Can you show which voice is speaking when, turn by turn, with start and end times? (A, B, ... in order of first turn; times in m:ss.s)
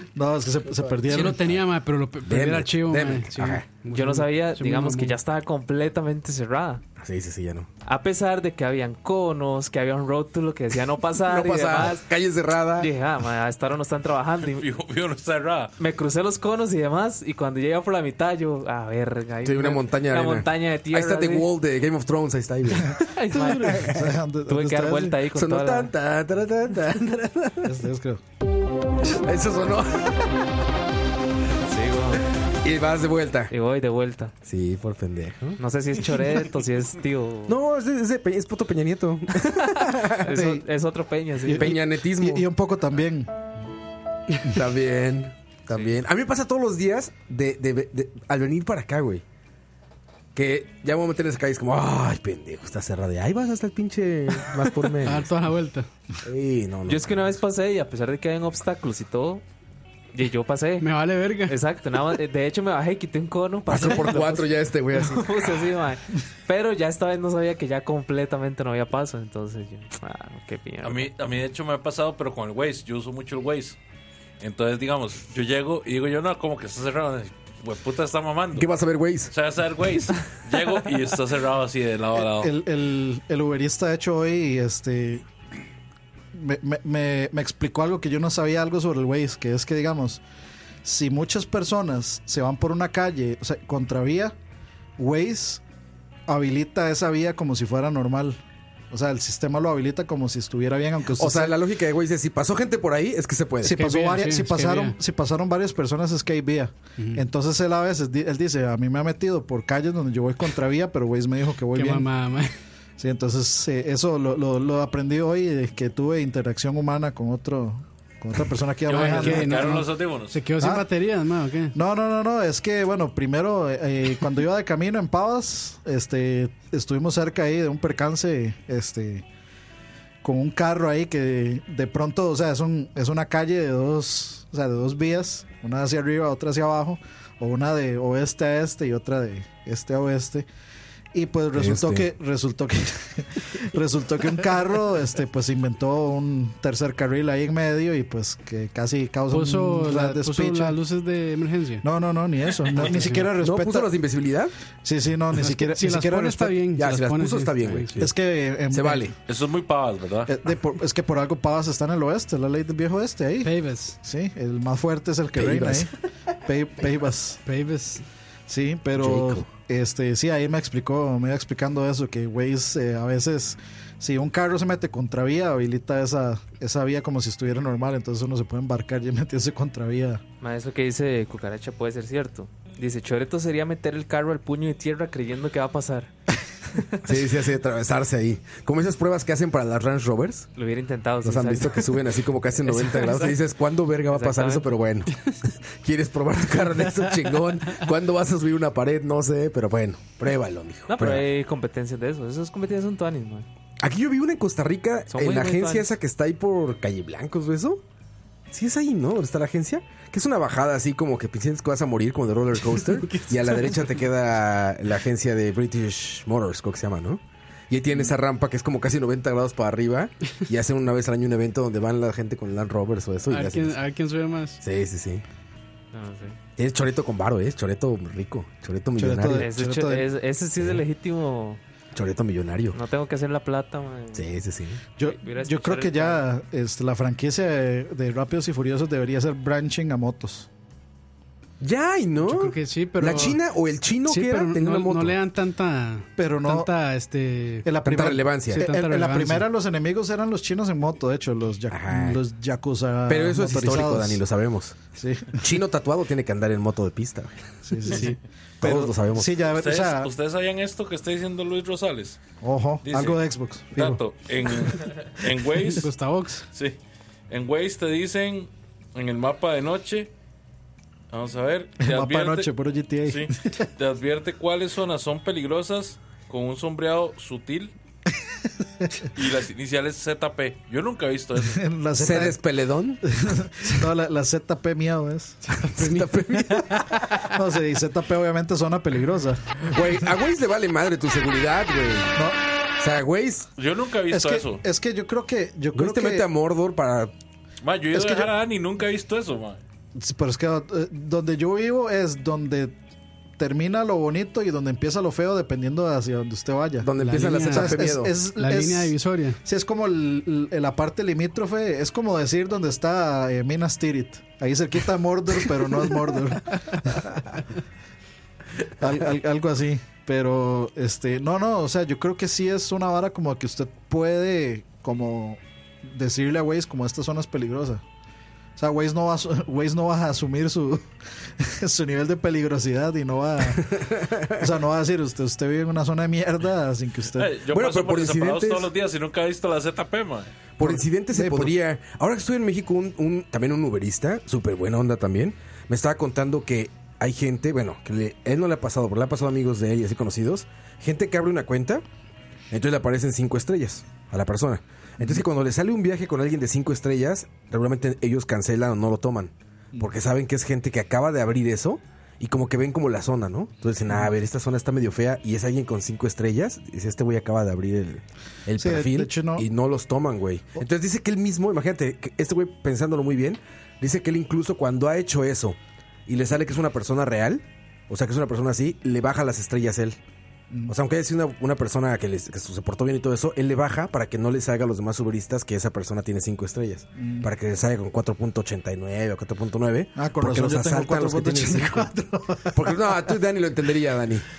0:00.1-0:01.5 A
0:01.1-0:05.2 B
0:01.1-0:01.6 C
0:02.2-0:03.6 C
0:03.9-0:06.8 D
0:07.0-0:07.7 C
0:07.8-0:12.0 D
0:11.1-0:12.9 C
0:12.8-0:14.6 D
0:14.4-0:15.7 E
0:15.8-0:21.5 D
0:19.4-0:24.1 C
0:23.1-0:23.9 D
0:23.7-0:25.2 A
0:24.5-0:25.9 D
0:25.3-0:27.8 C
0:27.6-0:28.2 A
0:29.0-0:30.4 C
0:31.6-0:32.2 D
0:32.6-0:33.5 C
0:33.5-0:34.3 D
0:34.4-0:35.6 C
0:35.6-0:37.6 D
0:37.5-0:40.3 C
0:39.4-0:41.7 D
0:40.3-0:40.6 A
0:41.4-0:43.3 A
0:41.5-0:42.5 C
0:44.3-0:49.2 C
0:50.3-0:55.5 C
0:55.0-0:55.9 B
0:56.2-0:57.4 C
0:56.9-0:59.4 D
1:00.1-1:11.1 D
1:00.8-1:01.6 B
1:03.7-1:05.7 C
1:10.8-1:13.8 E
1:14.4-1:18.7 E
1:18.5-1:19.3 C
1:19.3-1:22.5 E
1:22.2-1:25.2 A
1:26.3-1:30.2 A
1:30.8-1:34.3 A
1:35.0-1:35.6 A
1:36.3-1:38.4 A
1:38.9-1:41.6 A
1:41.1-1:43.8 C
1:43.6-1:52.1 A
1:43.7-1:45.0 B
1:47.0-1:47.2 B
1:51.7-1:52.5 B
1:53.0-1:59.8 A
1:58.8-2:00.4 E
1:59.0-2:01.7 B
2:00.6-2:00.9 A
2:01.7-2:09.2 A
2:10.2-2:20.4 A
2:21.1-2:30.8 A
2:21.5-2:22.1 C
2:29.3-2:31.8 B
2:31.8-2:33.9 A
2:32.8-2:33.3 B
2:33.3-2:34.5 C
2:34.8-2:36.6 A
2:35.4-2:38.0 B
2:36.7-2:38.1 C
2:38.0-2:39.1 A
2:38.7-2:39.1 C
2:39.3-2:40.3 E
2:40.3-2:45.9 A
2:43.4-2:44.0 B
2:45.3-2:45.9 C
2:46.4-2:47.4 A
2:47.4-2:48.0 B
2:48.5-3:00.2 A
2:48.9-2:49.5 C
3:00.4-3:06.1 D
3:06.7-3:07.0 D
3:07.0-3:10.5 C
3:10.6-3:12.0 D
3:11.2-3:21.3 C
3:12.6-3:13.4 D
3:14.1-3:14.8 D
3:20.9-3:23.4 D
3:23.8-3:27.8 C
3:25.1-3:25.9 D
3:28.5-3:43.8 C
3:33.0-3:33.7 B
3:43.3-3:44.6 B
3:44.6-3:45.2 C
3:45.9-3:46.4 D
3:46.6-3:49.5 C
3:49.0-3:50.1 A
3:49.3-3:51.6 D
3:51.9-3:52.8 C
3:52.7-3:54.2 D
3:54.1-3:54.8 C
3:55.0-4:00.5 A
3:55.0-3:56.2 D
4:01.6-4:05.2 C
4:02.2-4:03.4 B
4:04.0-4:07.7 B
4:06.2-4:06.7 A
4:07.6-4:14.2 A
4:07.8-4:08.7 C
4:08.5-4:09.5 B
4:11.7-4:12.2 C
4:13.1-4:14.8 C
4:14.9-4:15.4 A
4:15.4-4:17.4 C
4:17.6-4:20.1 A
4:18.6-4:19.3 C
4:19.5-4:22.2 E
4:22.4-4:24.0 A
4:22.8-4:23.2 E
4:23.7-4:25.9 E
4:25.7-4:26.4 B
4:27.3-4:30.1 E
4:31.1-4:32.5 E
4:31.8-4:33.6 A
4:33.0-4:37.7 E
4:39.1-4:41.6 E
4:41.5-4:42.4 A
4:41.9-4:43.0 C
4:43.1-4:45.5 A
4:45.6-4:46.9 B
4:45.6-4:47.1 C
4:47.2-4:49.6 A
4:49.6-4:52.2 C
4:52.8-4:53.5 C
4:53.6-4:54.6 E
4:54.1-4:56.3 A
4:55.7-4:57.1 C
4:57.6-4:59.6 E
4:57.9-4:58.3 A
5:00.0-5:02.7 A
5:03.4-5:06.9 A
5:06.8-5:08.1 C
5:07.0-5:09.4 B
5:07.4-5:17.4 A
5:18.6-5:27.8 A
5:28.6-5:30.9 A
5:31.4-5:37.3 A
5:33.5-5:34.4 C
5:37.1-5:40.3 E
5:37.5-5:38.7 C
5:40.6-5:51.8 C
5:40.6-5:41.5 A
5:52.5-6:20.0 C
6:08.6-6:09.4 A
6:20.7-6:31.9 C
6:27.0-6:27.3 A
6:30.0-6:33.0 A
6:32.5-6:34.2 C